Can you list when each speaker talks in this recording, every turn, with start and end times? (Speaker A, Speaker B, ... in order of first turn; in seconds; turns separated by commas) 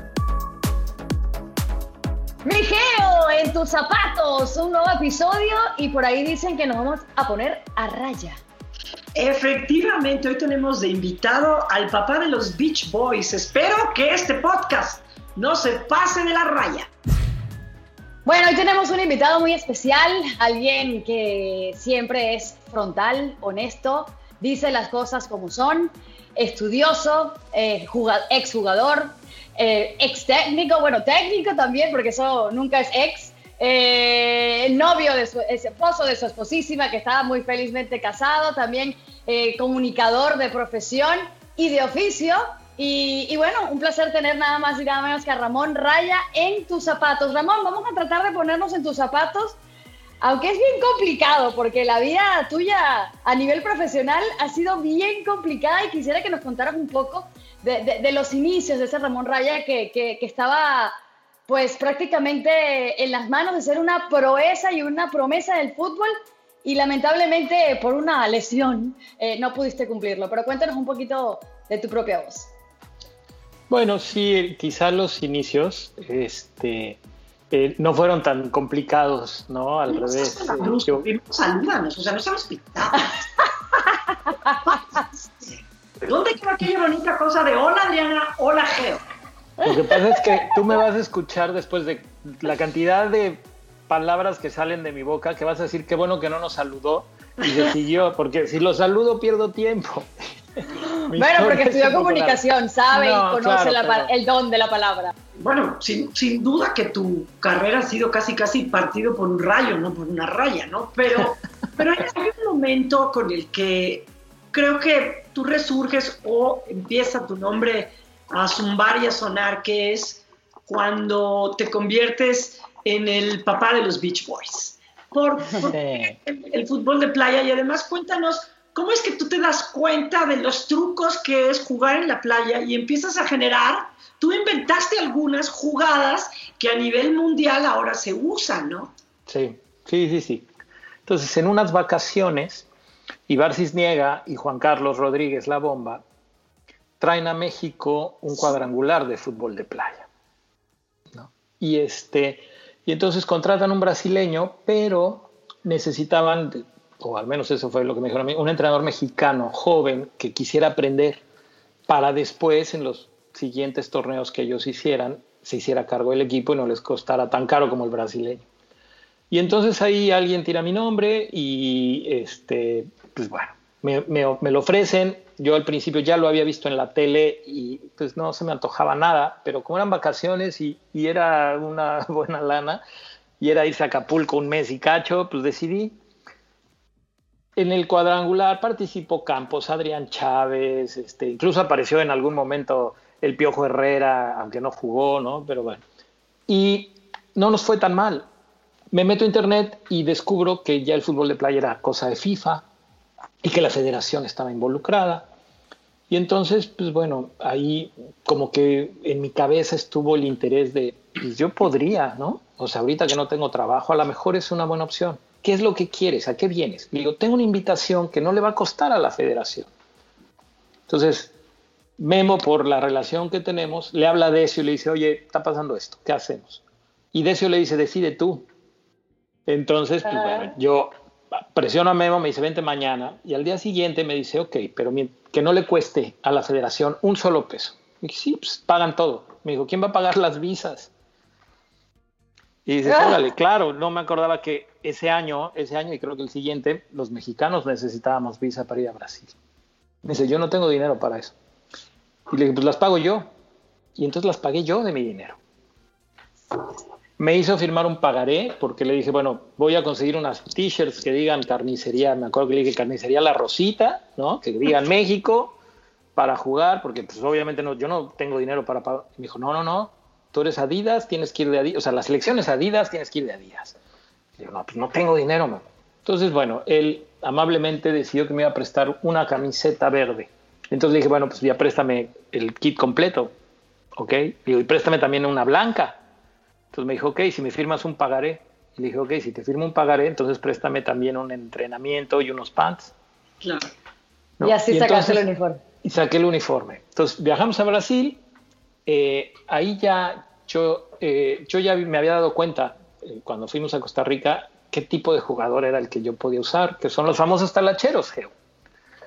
Speaker A: 2.4-8.4, Speaker B: 9.1-16.9, Speaker A: 18.2-49.6, Speaker A: 50.2-60.9, Speaker A: 61.5-66.1, Speaker A: 66.6-72.5, Speaker C: 73.7-77.0, Speaker C: 77.5-81.1, Speaker B: 79.9-83.2, Speaker A: 84.3-84.6, Speaker B: 84.6-89.0, Speaker C: 89.6-100.1, Speaker C: 101.0-104.1, Speaker A: 101.1-105.1, Speaker B: 105.4-138.9, Speaker C: 125.6-126.1, Speaker C: 139.3-140.5, Speaker C: 141.1-142.7, Speaker C: 143.3-146.0, Speaker C: 147.0-150.1, Speaker C: 151.1-161.2, Speaker C: 161.9-168.4, Speaker C: 169.3-182.8, Speaker C: 183.4-185.9, Speaker C: 187.6-195.8, Speaker C: 196.5-198.3, Speaker C: 198.9-202.6, Speaker C: 203.4-205.3, Speaker C: 206.1-219.7, Speaker C: 220.9-221.3, Speaker C: 222.0-226.6, Speaker C: 227.1-228.5, Speaker C: 229.5-240.9, Speaker C: 242.7-249.3, Speaker C: 250.0-251.3, Speaker C: 252.3-253.3, Speaker C: 253.9-255.4, Speaker C: 257.2-265.6, Speaker C: 266.1-273.8, Speaker C: 274.4-283.3, Speaker C: 283.9-286.0, Speaker C: 286.7-292.9, Speaker B: 293.4-293.7, Speaker C: 294.4-295.2, Speaker A: 294.4-295.6, Speaker C: 295.8-298.2, Speaker C: 298.9-308.3